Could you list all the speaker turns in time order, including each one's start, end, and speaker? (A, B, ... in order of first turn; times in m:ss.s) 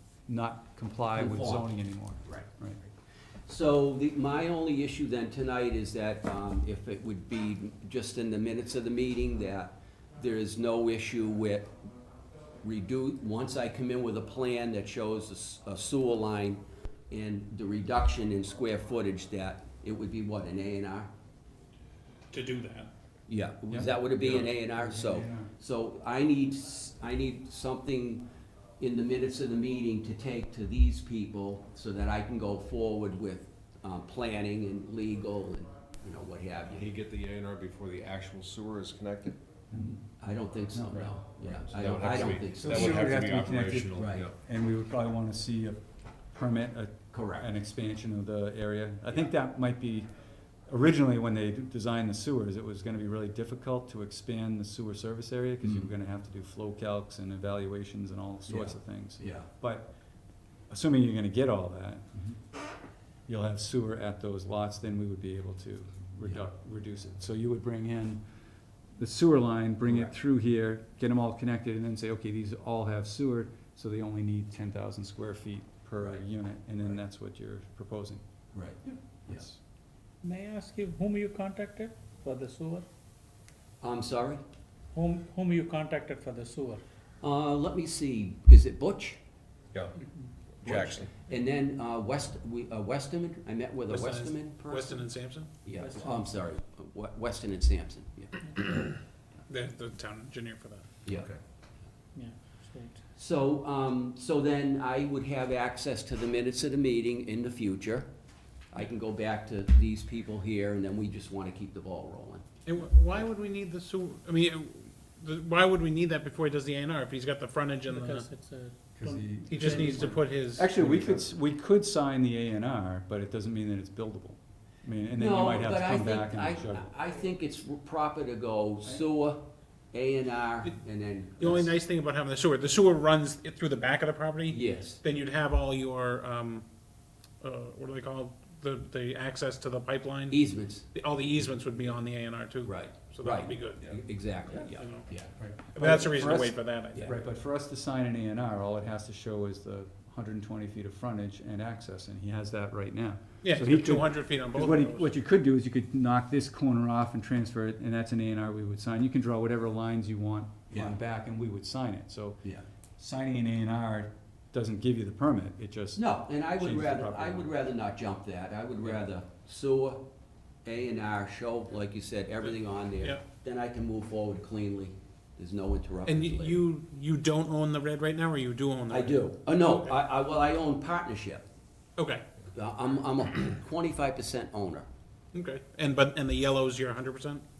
0:00.3-0:02.8 A
0:01.2-0:01.7 B
0:03.5-0:11.7 B
0:12.6-0:21.1 B
0:22.3-0:22.9 C
0:23.3-0:28.2 B
0:23.7-0:25.5 A
0:28.8-0:36.9 B
0:36.7-0:39.4 D
0:39.7-0:40.0 A
0:39.7-0:43.3 B
0:40.7-0:41.1 A
0:41.4-0:44.3 D
0:42.5-0:45.8 A
0:44.0-0:44.3 B
0:46.3-0:50.1 A
0:47.1-0:47.5 B
0:50.7-0:59.9 A
0:55.6-0:55.9 B
0:58.5-0:59.5 B
1:00.7-1:02.2 A
1:03.3-1:08.2 A
1:09.0-1:18.2 A
1:18.5-1:19.4 B
1:19.3-1:19.6 A
1:20.2-1:22.8 E
1:23.8-1:24.4 B
1:24.9-1:26.8 E
1:27.2-1:29.2 B
1:30.6-1:31.1 D
1:30.6-1:35.1 B
1:33.9-1:35.5 C
1:35.6-1:38.9 B
1:35.8-1:36.2 E
1:39.5-1:40.8 C
1:42.1-1:43.0 E
1:43.2-1:48.1 B
1:48.7-1:52.4 B
1:52.6-1:58.3 C
1:57.9-2:00.2 E
1:59.0-2:06.9 A
1:59.5-2:00.7 C
2:00.8-2:01.2 B
2:05.1-2:11.7 B
2:11.4-2:16.6 C
2:14.5-2:15.0 B
2:17.4-2:23.9 C
2:20.3-2:20.9 B
2:22.6-2:25.3 B
2:24.8-2:25.1 C
2:25.7-2:27.1 C
2:25.7-2:42.4 A
2:33.4-2:35.1 C
2:40.7-2:41.0 B
2:43.0-2:47.5 A
2:45.9-2:50.1 B
2:50.6-2:56.7 B
2:56.1-2:59.8 C
2:58.9-3:01.4 B
3:02.0-3:02.2 C
3:02.5-3:04.8 B
3:05.3-3:07.4 C